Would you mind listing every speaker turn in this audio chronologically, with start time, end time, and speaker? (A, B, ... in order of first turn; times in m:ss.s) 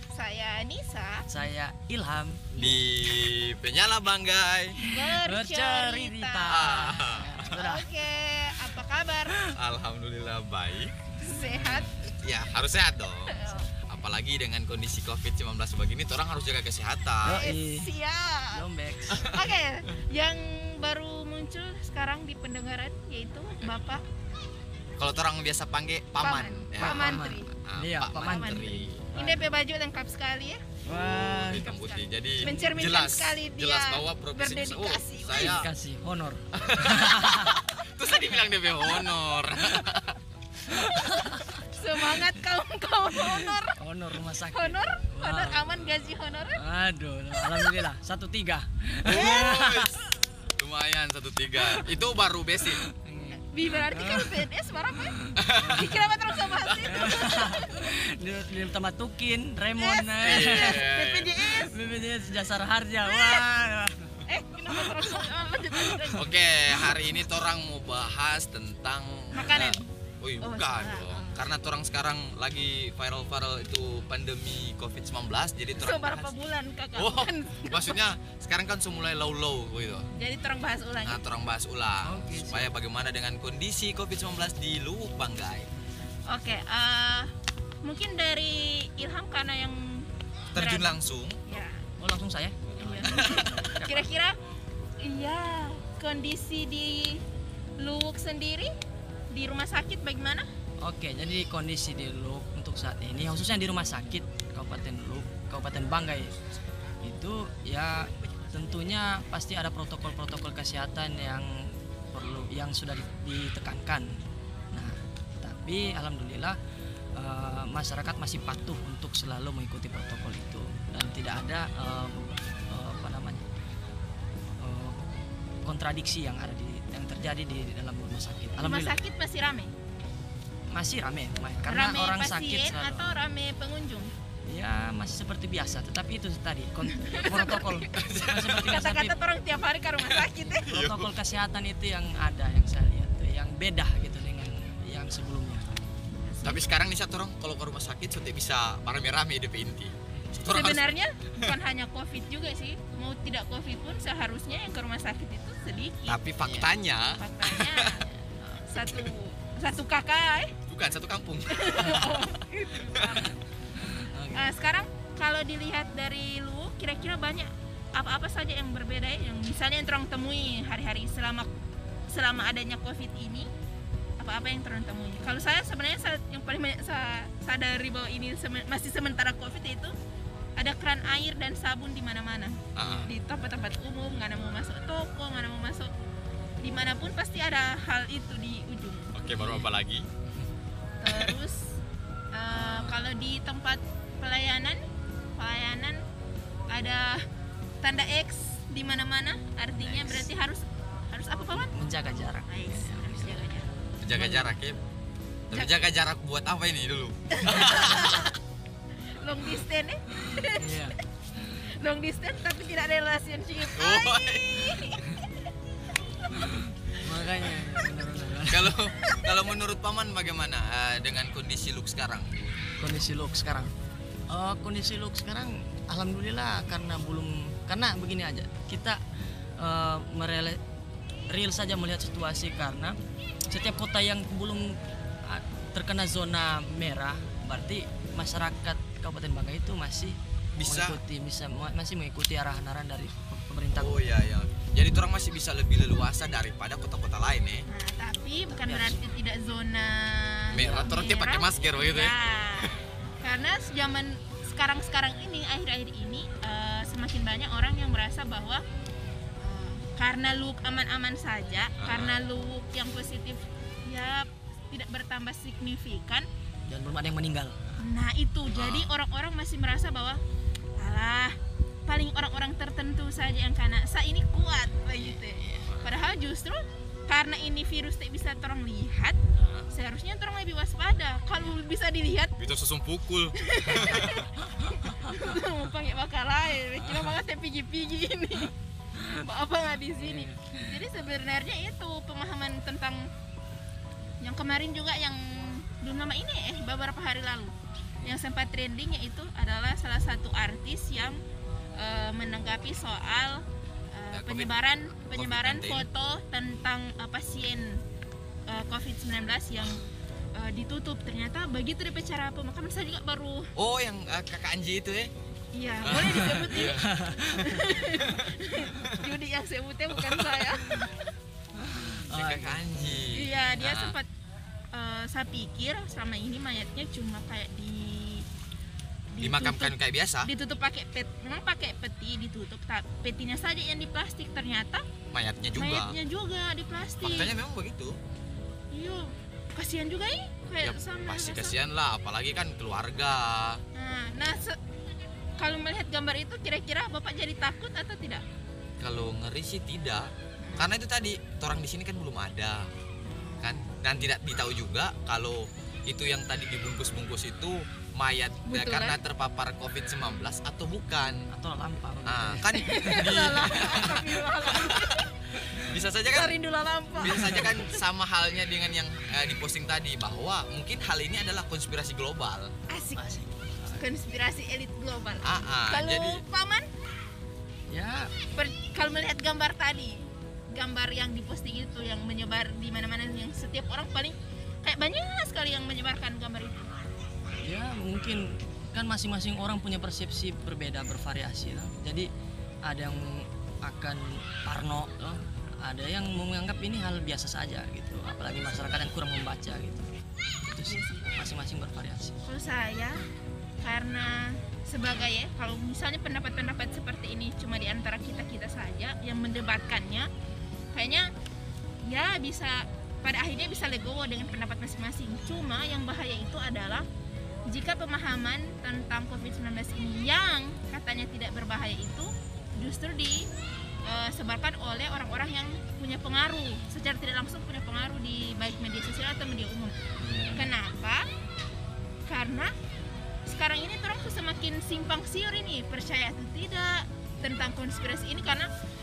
0:00.1-0:01.3 A
0:01.3-0:02.8 B
0:02.6-0:04.8 C
0:04.8-0:07.9 B
0:04.8-0:06.8 A
0:06.5-0:07.5 C
0:07.3-0:09.4 A
0:09.5-0:10.9 C
0:11.2-0:12.0 A
0:11.3-0:11.9 B
0:12.2-0:17.4 C
0:13.3-0:13.7 A
0:17.2-0:17.9 B
0:17.3-0:18.6 A
0:18.5-0:19.3 B
0:19.2-0:24.0 A
0:25.0-0:29.1 C
0:26.2-0:27.5 A
0:26.8-0:29.4 B
0:28.2-0:30.6 A
0:30.8-0:31.7 B
0:31.0-0:35.7 C
0:31.2-0:35.6 A
0:32.4-0:32.7 B
0:35.3-0:37.6 B
0:36.5-0:40.2 C
0:40.7-0:42.3 B
0:41.1-0:43.8 A
0:43.1-0:46.0 B
0:44.5-0:46.6 A
0:46.5-0:49.9 B
0:47.5-0:47.8 A
0:49.0-0:50.0 C
0:50.6-0:52.8 C
0:52.6-0:54.4 B
0:53.3-0:57.9 A
0:55.0-0:56.1 B
0:55.4-0:56.0 C
0:56.8-1:05.1 B
0:59.8-1:01.8 A
1:00.2-1:01.4 C
1:03.0-1:03.5 A
1:04.3-1:06.3 A
1:05.7-1:06.2 B
1:06.1-1:16.3 C
1:09.3-1:11.4 A
1:15.8-1:18.0 A
1:17.0-1:20.1 C
1:20.2-1:21.2 A
1:21.0-1:25.7 C
1:22.0-1:22.7 B
1:26.3-1:27.3 A
1:27.8-1:31.8 A
1:30.5-1:31.4 C
1:32.0-1:34.1 B
1:32.8-1:34.4 A
1:33.0-1:33.6 C
1:35.0-1:37.2 A
1:37.8-1:38.7 A
1:39.3-1:40.4 A
1:40.8-1:46.3 B
1:47.0-1:54.2 B
1:54.7-1:56.6 B
1:57.1-2:03.4 B
2:04.6-2:05.0 B
2:05.6-2:09.0 B
2:08.6-2:09.7 A
2:10.7-2:13.2 B
2:11.7-2:14.1 A
2:14.5-2:19.2 B
2:17.0-2:17.7 A
2:17.9-2:18.7 C
2:18.7-2:20.7 A
2:20.6-2:25.7 B
2:20.7-2:21.1 C
2:26.2-2:26.6 A
2:26.4-2:30.9 C
2:30.5-2:36.2 A
2:36.1-2:38.0 C
2:36.4-2:36.7 B
2:37.2-2:40.6 A
2:40.7-2:42.2 C
2:41.5-2:43.3 A
2:42.8-2:43.2 C
2:43.2-2:44.5 B
2:44.3-2:51.5 A
2:52.1-2:53.5 A
2:54.2-2:59.9 A
3:00.6-3:05.9 A
3:02.8-3:03.1 C
3:02.8-3:03.1 B
3:06.6-3:09.4 A
3:09.1-3:10.1 C
3:09.4-3:09.6 B
3:11.0-3:11.8 A
3:11.1-3:11.4 C
3:12.3-3:14.8 A
3:12.6-3:13.0 B
3:15.4-3:16.0 A
3:16.7-3:17.2 A
3:17.8-3:21.8 A
3:19.7-3:20.3 B
3:21.5-3:24.5 B
3:22.4-3:23.7 A
3:24.0-3:24.8 C
3:25.5-3:28.3 C
3:25.5-3:25.8 A
3:27.3-3:28.3 A
3:29.2-3:30.9 A
3:30.2-3:31.0 B
3:31.6-3:35.2 A
3:33.7-3:34.8 C
3:36.4-3:38.7 B
3:38.4-3:42.4 C
3:39.1-3:39.3 A
3:42.8-3:43.7 B
3:44.3-3:49.0 B
3:49.6-3:50.6 B
3:51.3-3:53.0 B
3:53.5-4:03.9 B
4:00.6-4:01.0 C
4:03.7-4:07.6 C
4:07.7-4:18.6 A
4:08.5-4:09.0 B
4:10.5-4:12.7 C
4:10.5-4:11.0 B
4:19.4-4:26.3 A
4:21.8-4:22.2 C
4:26.7-4:27.8 B
4:27.8-4:30.2 A
4:28.5-4:28.9 C
4:30.8-4:31.4 A
4:31.9-4:42.3 A
4:35.4-4:35.9 C
4:39.4-4:39.7 C
4:42.4-4:44.3 C
4:43.4-4:48.5 A
4:49.1-4:53.1 A
4:49.9-4:50.8 B
4:54.2-5:01.2 A
5:01.8-5:07.8 A
5:04.1-5:04.5 C
5:05.1-5:05.9 C
5:08.5-5:13.5 A
5:13.6-5:15.1 C
5:15.5-5:20.9 A
5:15.8-5:16.9 C
5:15.9-5:17.4 B
5:18.1-5:19.0 C
5:20.0-5:20.3 C
5:21.6-5:23.1 B
5:22.1-5:24.0 C
5:23.1-5:24.1 A
5:24.7-5:28.2 A
5:29.1-5:34.8 A
5:29.2-5:30.3 C
5:35.1-5:36.0 C
5:35.6-5:37.3 A
5:37.0-5:38.0 C
5:38.7-5:41.6 A
5:40.6-5:43.6 C
5:43.7-5:44.6 A
5:45.4-5:48.2 A
5:48.8-5:52.7 C
5:50.4-5:50.7 A
5:53.0-5:53.6 A
5:53.4-6:01.2 C
5:58.4-5:59.0 A
6:01.3-6:04.2 B
6:02.0-6:05.0 C
6:02.5-6:05.1 A
6:05.6-6:06.3 C
6:06.1-6:07.6 A
6:07.0-6:12.5 C
6:12.7-6:13.0 A
6:12.9-6:13.8 B
6:13.8-6:16.7 A
6:15.2-6:16.2 C
6:17.7-6:18.1 B
6:18.3-6:26.7 A
6:27.4-6:32.1 B
6:32.6-6:39.9 B
6:40.5-6:42.2 B
6:40.7-6:41.1 A
6:42.2-6:43.0 A
6:43.6-6:50.1 A
6:50.7-6:51.1 A
6:51.8-6:56.9 A
6:57.5-7:03.3 A
7:03.8-7:09.7 A
7:10.0-7:10.5 B
7:10.3-7:11.0 A
7:12.1-7:12.5 A
7:13.2-7:18.5 A